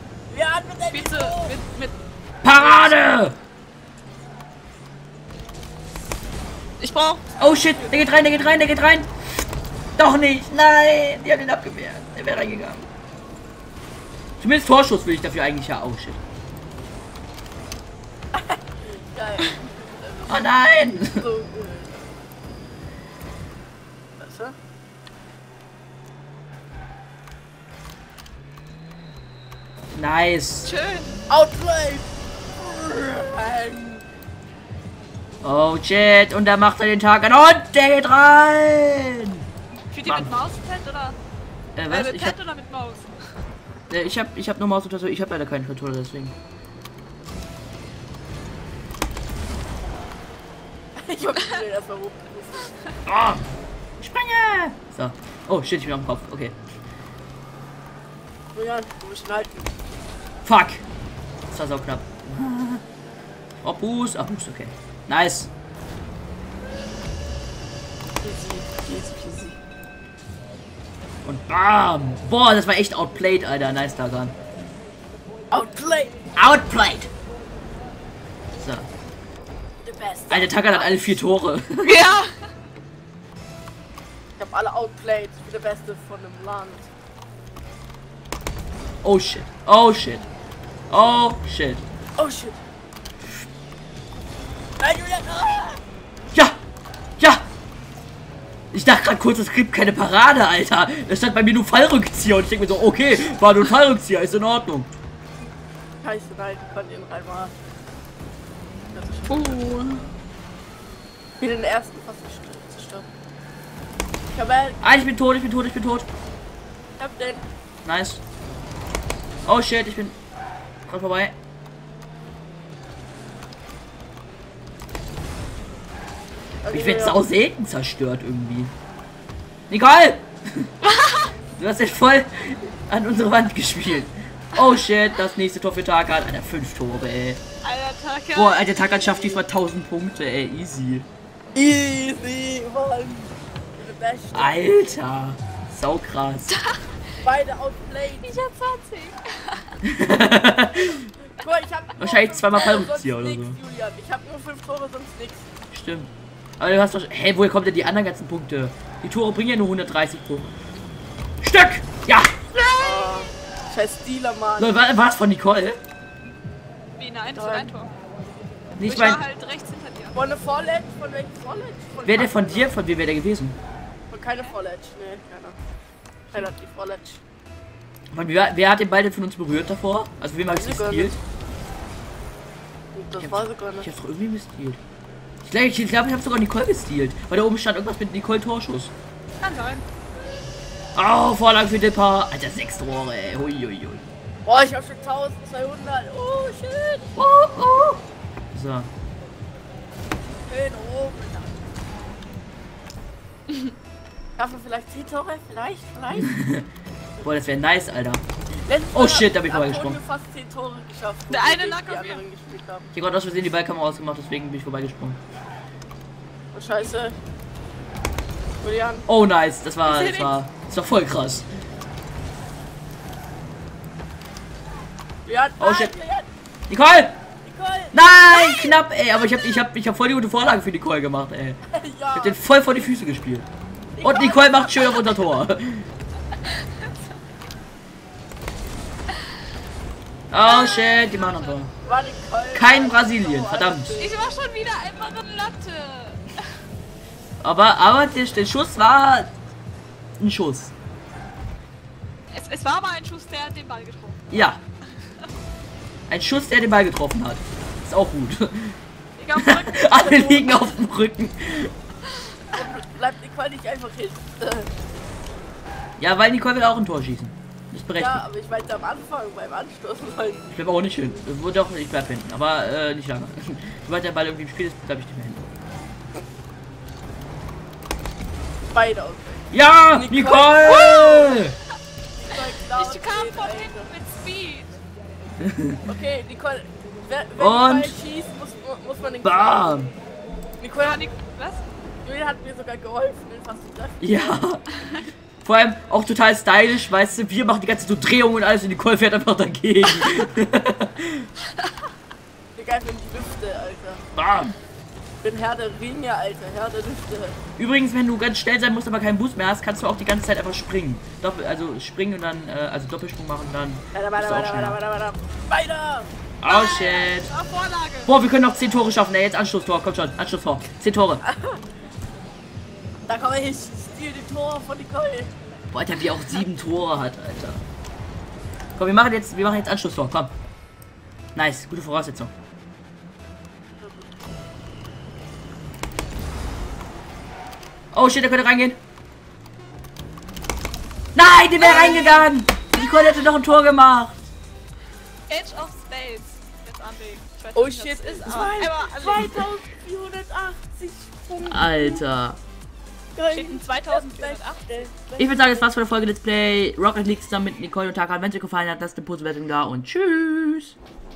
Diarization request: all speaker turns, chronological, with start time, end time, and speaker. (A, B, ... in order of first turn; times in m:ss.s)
0:00.3-0:01.6 A
0:00.9-0:01.9 B
0:02.4-0:03.4 C
0:02.5-0:03.0 B
0:06.8-0:07.2 B
0:07.4-0:09.1 C
0:10.0-0:12.9 C
0:14.4-0:16.2 C
0:18.3-0:22.2 A
0:20.3-0:21.2 C
0:24.2-0:24.5 A
0:29.9-0:30.7 C
0:30.6-0:31.2 B
0:31.3-0:34.0 A
0:35.4-0:39.4 C
0:39.9-0:41.2 B
0:40.0-0:40.3 C
0:41.8-0:42.4 C
0:41.9-0:43.1 B
0:43.9-0:46.3 C
0:51.0-0:52.7 A
0:53.0-0:56.6 C
0:58.5-0:59.7 A
1:00.4-1:00.8 C
1:01.5-1:02.8 C
1:03.6-1:05.5 C
1:08.2-1:09.6 A
1:11.2-1:14.3 C
1:15.5-1:16.2 A
1:16.4-1:17.1 C
1:18.6-1:18.9 C
1:19.8-1:21.2 A
1:20.3-1:22.1 C
1:21.8-1:22.4 B
1:24.4-1:26.9 A
1:29.0-1:30.3 C
1:30.9-1:31.8 C
1:32.2-1:32.6 A
1:34.8-1:35.8 A
1:37.2-1:37.4 C
1:38.7-1:44.9 C
1:46.0-1:47.5 A
1:48.9-1:49.7 A
1:49.3-1:50.0 B
1:51.4-1:53.1 A
1:54.3-1:54.8 A
1:54.8-1:56.1 C
1:57.0-1:57.4 A
1:57.8-1:58.2 C
1:59.4-2:00.2 C
2:00.9-2:01.3 C
2:06.6-2:07.2 A
2:06.7-2:08.7 C
2:09.7-2:10.7 C
2:10.8-2:11.3 B
2:11.6-2:17.4 C
2:17.6-2:18.8 B
2:18.3-2:21.1 C
2:21.5-2:24.8 A
2:24.3-2:26.5 C
2:26.5-2:26.9 B
2:27.2-2:28.4 A
2:28.2-2:29.7 B
2:29.8-2:31.1 C
2:31.4-2:35.5 A
2:32.0-2:33.6 C
2:35.7-2:40.5 C
2:41.4-2:42.4 C
2:42.5-2:43.3 B
2:42.8-2:44.8 A
2:44.6-2:45.8 C
2:47.0-2:47.9 B
2:47.3-2:47.7 A
2:48.8-2:49.2 C
2:48.8-2:50.2 B
2:50.1-2:52.7 A
2:52.0-2:53.6 C
2:54.1-2:55.6 A
2:56.3-2:57.2 A
2:58.1-3:01.2 C
3:00.5-3:01.2 A
3:02.9-3:03.9 A
3:03.2-3:04.8 C
3:05.4-3:08.9 C
3:09.4-3:09.8 B
3:10.9-3:14.0 C
3:14.4-3:17.2 A
3:17.2-3:18.0 C
3:18.5-3:18.9 C
3:20.5-3:21.7 A
3:24.4-3:26.4 A
3:26.2-3:26.6 C
3:27.2-3:28.2 C
3:28.6-3:32.9 A
3:28.9-3:30.0 C
3:31.3-3:32.2 B
3:32.9-3:35.2 C
3:36.5-3:37.2 A
3:38.6-3:39.0 A
3:39.1-3:41.5 C
3:39.8-3:40.4 B
3:45.2-3:46.3 A
3:45.6-3:45.9 C
3:46.7-3:47.2 C
3:47.4-3:48.7 A
3:47.9-3:51.6 C
3:51.7-3:52.4 A
3:52.1-3:53.5 C
3:54.0-3:55.0 A
3:54.0-3:55.9 C
3:56.4-3:56.9 B
4:00.3-4:01.7 C
4:00.4-4:01.6 B
4:01.8-4:04.3 A
4:02.5-4:04.0 C
4:04.0-4:06.4 B
4:07.4-4:09.3 C
4:10.2-4:10.7 C
4:12.3-4:14.5 B
4:14.3-4:14.6 C
4:16.1-4:18.8 C
4:19.2-4:20.2 B
4:19.3-4:21.7 C
4:19.9-4:20.6 A
4:22.5-4:24.7 A
4:26.0-4:28.2 C
4:28.0-4:30.4 A
4:30.5-4:35.4 C
4:38.7-4:40.9 A
4:39.5-4:41.5 C
4:40.6-4:41.5 B
4:42.1-4:43.9 A
4:42.3-4:44.8 B
4:45.4-4:45.8 C
4:45.9-4:49.7 A
4:47.4-4:47.9 C
4:49.2-4:49.9 C
4:50.6-4:51.1 A
4:50.8-4:51.6 B
4:52.0-4:54.2 A
4:54.0-4:54.6 C
4:55.4-5:01.3 C
5:02.5-5:04.0 A
5:04.1-5:04.6 C
5:05.2-5:07.4 A
5:07.6-5:14.8 C
5:13.9-5:16.1 A
5:16.4-5:17.3 C
5:16.4-5:18.1 B
5:18.0-5:21.2 C
5:21.2-5:21.6 A
5:23.1-5:25.3 A
5:25.7-5:27.6 C
5:28.8-5:30.3 C
5:31.3-5:32.3 C
5:33.8-5:34.1 A
5:37.9-5:38.8 C
5:41.1-5:44.2 C
5:41.6-5:42.3 B
5:41.6-5:42.2 A
5:45.3-5:49.4 B
5:47.5-5:52.0 A
5:51.5-5:52.4 C
5:53.1-5:55.7 A
5:53.3-5:54.9 B
5:55.2-6:00.7 C